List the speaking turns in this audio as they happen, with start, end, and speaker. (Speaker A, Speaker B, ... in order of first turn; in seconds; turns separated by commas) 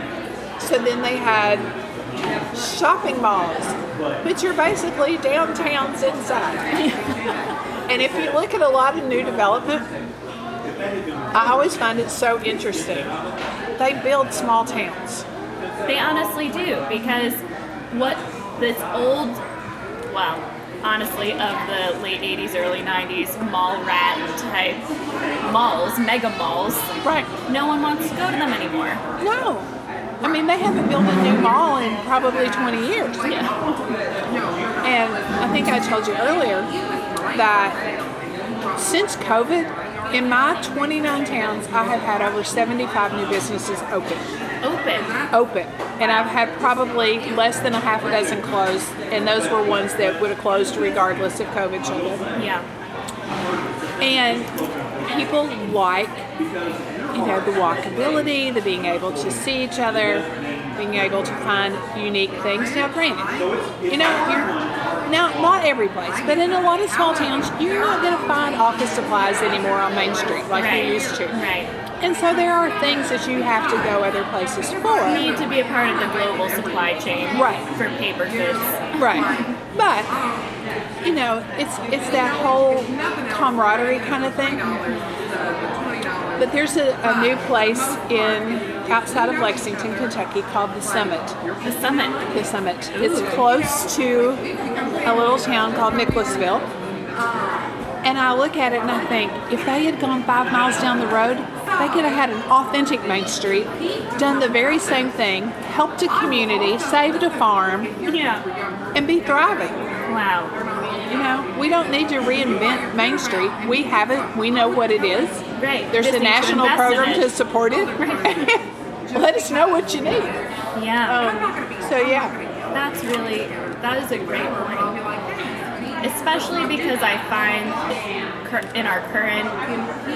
Speaker A: 0.6-1.7, Speaker A: 2.5-6.8, Speaker B: 6.8-7.3, Speaker A: 7.9-9.9, Speaker A: 11.3-13.2, Speaker A: 13.8-15.2, Speaker B: 15.8-19.4, Speaker B: 20.1-26.9, Speaker A: 27.0-27.3, Speaker B: 27.5-29.0, Speaker A: 29.2-29.7, Speaker A: 30.2-33.3, Speaker B: 33.2-33.5, Speaker A: 34.8-36.7, Speaker A: 37.3-37.8, Speaker A: 38.8-44.2, Speaker B: 44.6-45.1, Speaker A: 45.3-52.3, Speaker B: 52.4-52.6, Speaker A: 54.0-56.2, Speaker A: 57.1-71.3, Speaker B: 70.5-71.7, Speaker A: 72.0-75.3, Speaker B: 75.0-79.5, Speaker A: 77.3-77.7, Speaker A: 79.0-80.1, Speaker A: 81.0-84.7, Speaker B: 84.7-85.2, Speaker A: 86.4-91.4, Speaker B: 91.6-92.3, Speaker A: 92.3-94.5, Speaker B: 92.9-93.4, Speaker A: 95.0-96.7, Speaker A: 98.0-107.9, Speaker B: 108.0-108.5, Speaker A: 108.9-109.8, Speaker B: 110.1-110.5, Speaker A: 111.1-120.4, Speaker B: 115.6-117.3, Speaker B: 118.0-118.3, Speaker B: 120.7-121.3, Speaker A: 121.0-122.3, Speaker B: 122.7-125.0, Speaker B: 126.0-129.6